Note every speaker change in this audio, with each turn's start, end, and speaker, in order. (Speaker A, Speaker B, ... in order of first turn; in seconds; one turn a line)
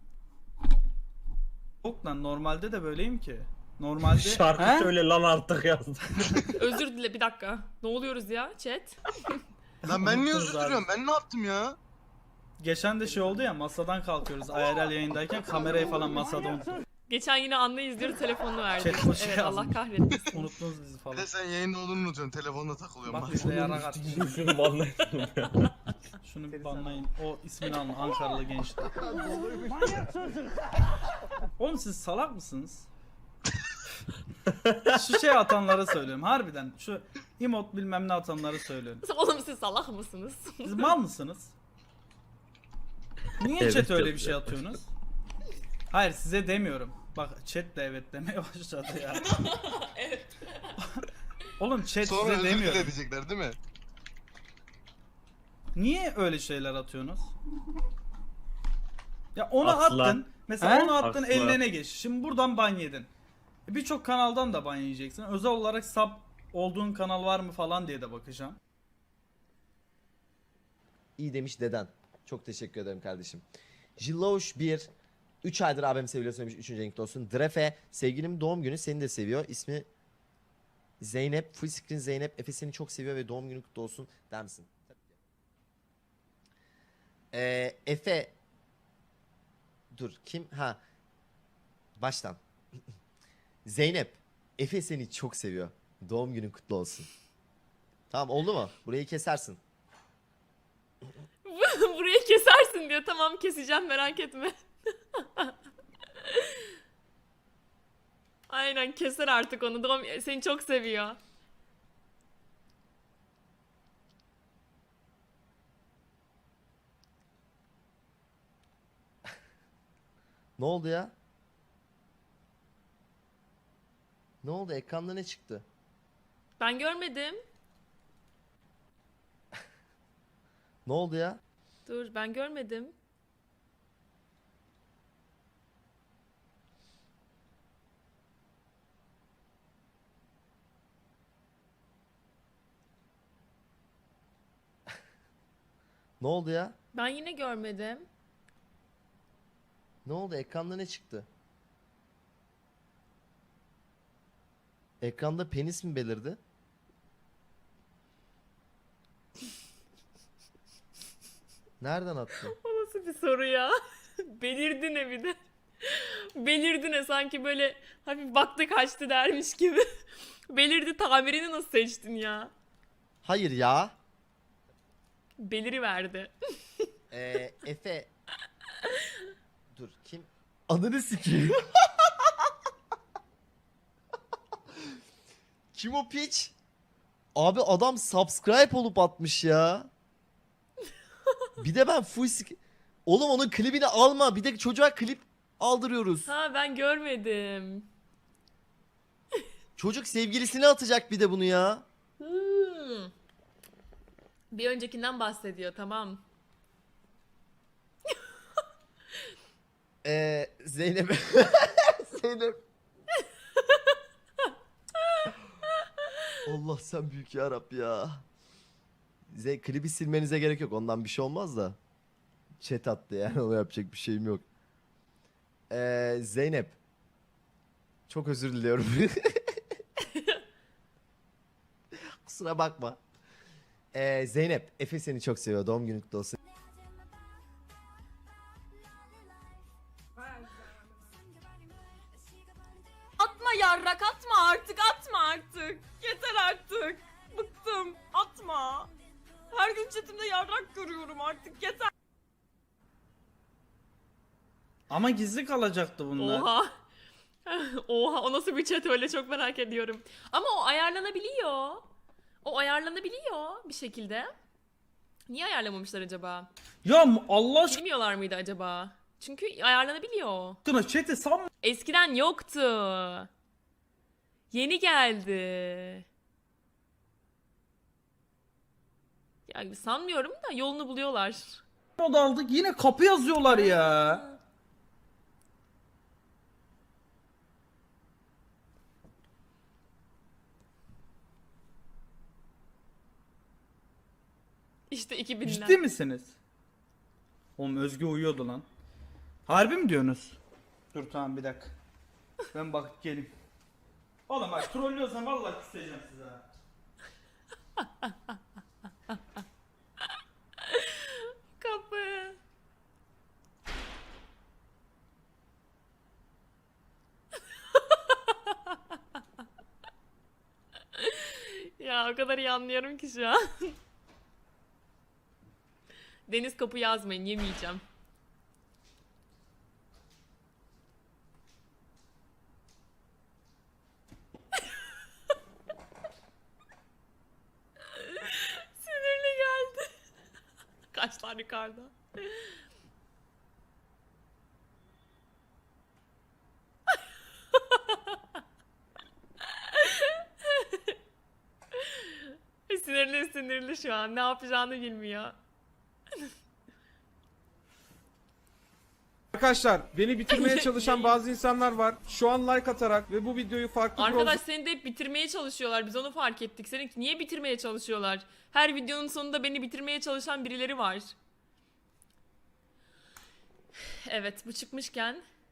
Speaker A: 1.8-4.9
Speaker B: 4.1-6.2
Speaker C: 6.6-9.4
Speaker A: 9.8-10.9
Speaker D: 9.8-11.8
Speaker A: 12.6-16.7
Speaker C: 17.1-20.5
Speaker A: 18.8-21.3
Speaker D: 21.1-23.9
Speaker A: 23.1-24.6
Speaker B: 23.8-25.7
Speaker A: 26.2-30.1
Speaker A: 31.6-32.9
Speaker A: 34.9-39.0
Speaker C: 39.0-40.9
Speaker A: 40.6-41.5
Speaker A: 43.4-44.9
Speaker B: 43.6-44.5
Speaker A: 45.9-49.4
Speaker C: 49.3-50.7
Speaker A: 51.6-52.9
Speaker D: 52.0-53.6
Speaker A: 55.8-57.3
Speaker A: 59.4-63.1
Speaker B: 59.6-61.6
Speaker A: 63.7-68.6
Speaker E: 71.2-73.5
Speaker E: 74.0-74.9
Speaker E: 75.4-79.9
Speaker E: 81.0-85.2
Speaker E: 87.3-88.4
Speaker E: 89.9-90.8
Speaker E: 92.0-92.4
Speaker E: 93.7-97.1
Speaker E: 98.1-99.6
Speaker C: 101.4-104.5
Speaker C: 105.1-105.5
Speaker C: 106.2-106.6
Speaker C: 108.5-111.2
Speaker E: 120.6-121.1
Speaker E: 124.4-125.7
Speaker C: 126.6-127.4
Speaker E: 130.9-131.4
Speaker C: 131.8-132.9
Speaker E: 146.2-146.8
Speaker C: 146.9-148.1
Speaker E: 150.1-151.3
Speaker E: 155.0-156.4
Speaker E: 161.8-162.5
Speaker C: 162.5-169.8
Speaker C: 170.5-172.5
Speaker E: 173.2-173.9
Speaker C: 175.4-176.9
Speaker E: 177.1-178.1
Speaker E: 179.7-182.3
Speaker E: 185.7-186.5
Speaker E: 187.4-189.9
Speaker E: 191.6-196.3
Speaker C: 196.3-197.9
Speaker E: 199.8-201.8
Speaker C: 202.2-203.1
Speaker C: 204.5-206.2
Speaker E: 210.0-212.6
Speaker E: 216.4-218.3
Speaker E: 219.3-221.8
Speaker E: 222.6-224.4
Speaker E: 225.7-226.8
Speaker E: 228.1-229.6
Speaker E: 232.2-233.0
Speaker E: 233.9-236.4
Speaker C: 243.2-248.9
Speaker C: 249.5-251.9
Speaker A: 254.9-256.5
Speaker C: 256.2-256.7
Speaker C: 257.5-261.9
Speaker C: 262.4-264.3
Speaker C: 265.3-266.5
Speaker A: 266.9-267.8
Speaker C: 267.7-270.6
Speaker A: 270.6-271.5
Speaker C: 271.6-273.3
Speaker C: 274.5-276.1
Speaker C: 279.5-281.6
Speaker A: 282.0-284.2
Speaker C: 283.5-284.4
Speaker C: 294.9-295.8
Speaker A: 295.4-296.4
Speaker A: 297.6-298.7
Speaker A: 299.5-300.4
Speaker A: 300.9-301.7
Speaker A: 302.5-303.3
Speaker A: 304.3-306.4
Speaker C: 307.8-308.1
Speaker C: 310.6-312.4
Speaker C: 317.7-318.8
Speaker C: 320.9-323.8
Speaker C: 326.3-327.8
Speaker C: 337.9-339.9
Speaker C: 340.9-342.5
Speaker C: 347.5-348.0
Speaker C: 349.6-350.9
Speaker C: 351.8-355.4
Speaker F: 359.3-364.4
Speaker C: 360.3-361.2
Speaker C: 363.9-371.1
Speaker C: 374.1-375.2